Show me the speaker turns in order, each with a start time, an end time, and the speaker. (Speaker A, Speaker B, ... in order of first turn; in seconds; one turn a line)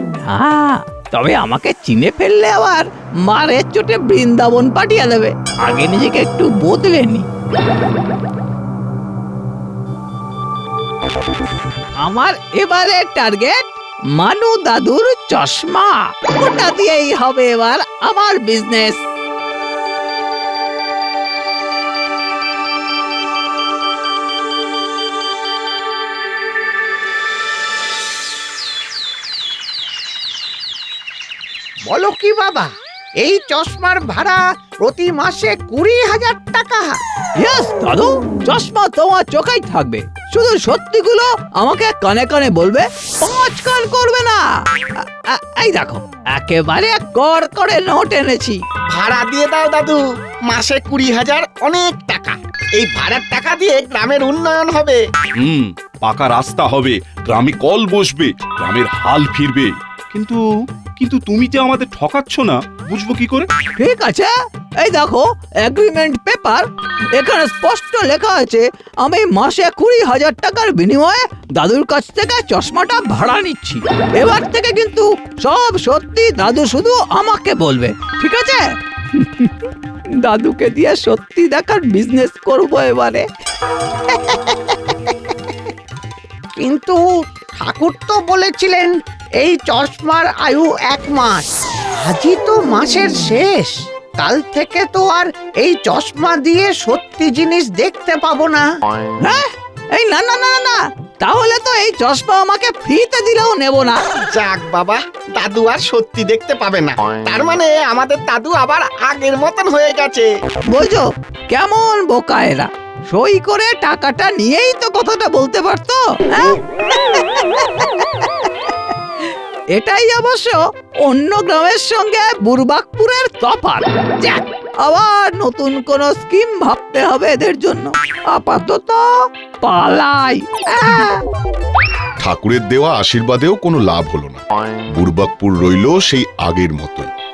Speaker A: 0.2-7.3
Speaker A: 12.0-19.0
Speaker B: 31.9-37.0
Speaker A: 37.4-44.4
Speaker A: 45.0-48.6
Speaker C: 48.9-55.0
Speaker D: 55.4-60.4
Speaker D: 61.0-63.5
Speaker A: 63.8-79.5
Speaker A: 80.2-83.3
Speaker A: 84.1-85.1
Speaker B: 86.6-87.0
Speaker B: 87.6-91.5
Speaker B: 92.0-98.7
Speaker A: 99.2-104.0
Speaker C: 104.3-110.3
Speaker A: 110.7-118.7
Speaker A: 119.8-129.1
Speaker A: 129.6-131.2
Speaker E: 132.2-137.1